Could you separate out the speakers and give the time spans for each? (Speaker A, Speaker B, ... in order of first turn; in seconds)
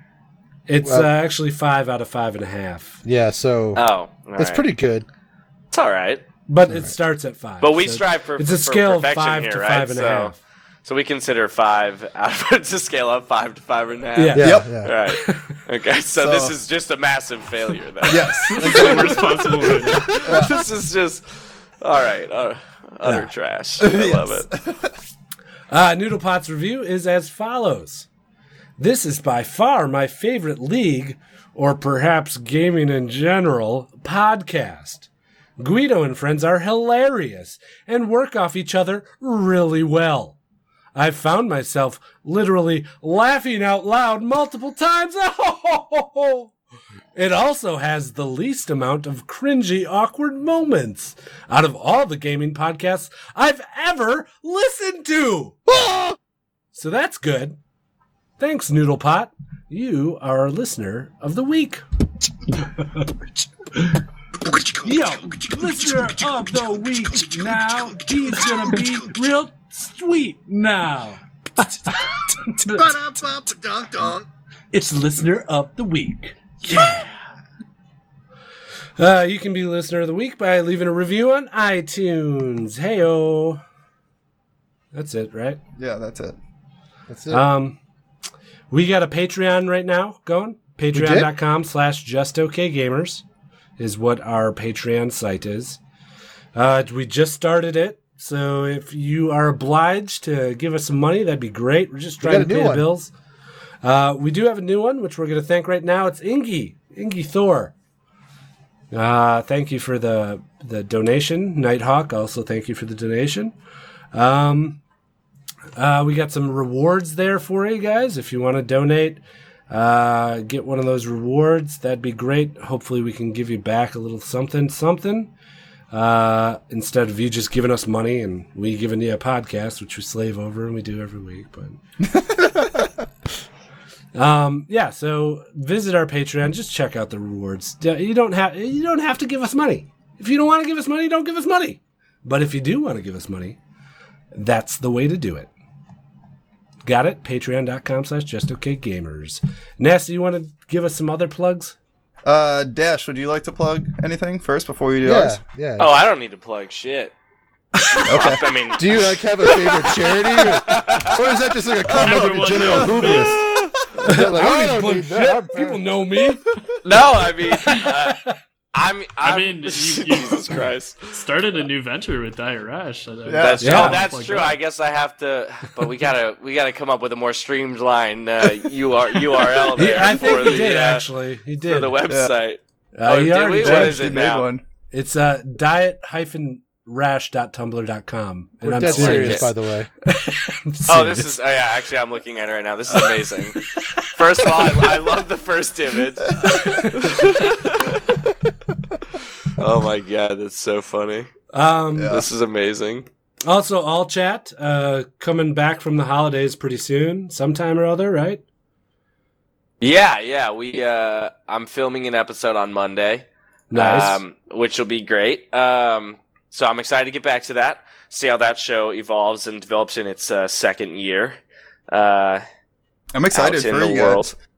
Speaker A: 0.7-3.0, 6.5-10.4, 14.2-15.6, 23.0-23.3, 25.7-28.1, 28.8-40.4, 40.9-46.5, 47.1-55.6, 56.7-57.6, 58.4-61.8, 62.5-64.0, 64.6-73.0, 74.7-77.1, 79.0-83.6, 84.9-85.6, 87.3-87.8, 88.7-93.2, 93.8-95.8, 96.5-103.1, 103.8-107.7, 108.9-113.5, 114.1-114.8, 115.7-125.3, 125.9-131.8, 134.1-143.6, 144.3-145.5, 146.8-151.8, 164.0-166.4, 167.7-168.1, 173.6-174.0, 179.8-182.0, 182.9-184.2, 184.9-189.5, 190.1-191.4, 196.7-197.2, 201.5-202.2, 203.4-208.4, 213.7-214.2
Speaker B: 0.8-1.1, 3.0-3.8, 4.4-5.1, 14.3-14.9, 55.7-56.2, 73.2-74.1, 87.1-87.4, 90.9-91.3, 102.2-102.9, 155.0-155.9, 158.8-165.8, 188.6-189.9
Speaker C: 3.7-4.7, 5.7-6.2, 7.6-19.1, 20.1-24.5, 155.8-157.1, 157.9-161.3, 166.8-171.2, 173.4-181.0, 181.6-184.5, 188.9-189.5, 190.8-198.1, 199.6-201.3, 202.1-203.1, 209.8-221.4, 221.9-222.4, 223.3-224.3
Speaker D: 14.4-14.7, 16.2-16.6, 18.0-20.6, 23.8-24.9, 85.8-86.4, 152.2-155.4, 158.0-158.4, 161.9-163.9, 173.2-174.0, 183.6-184.6, 196.3-197.2, 201.9-202.2, 223.1-224.3
Speaker E: 18.5-20.3, 161.9-163.4, 169.2-174.6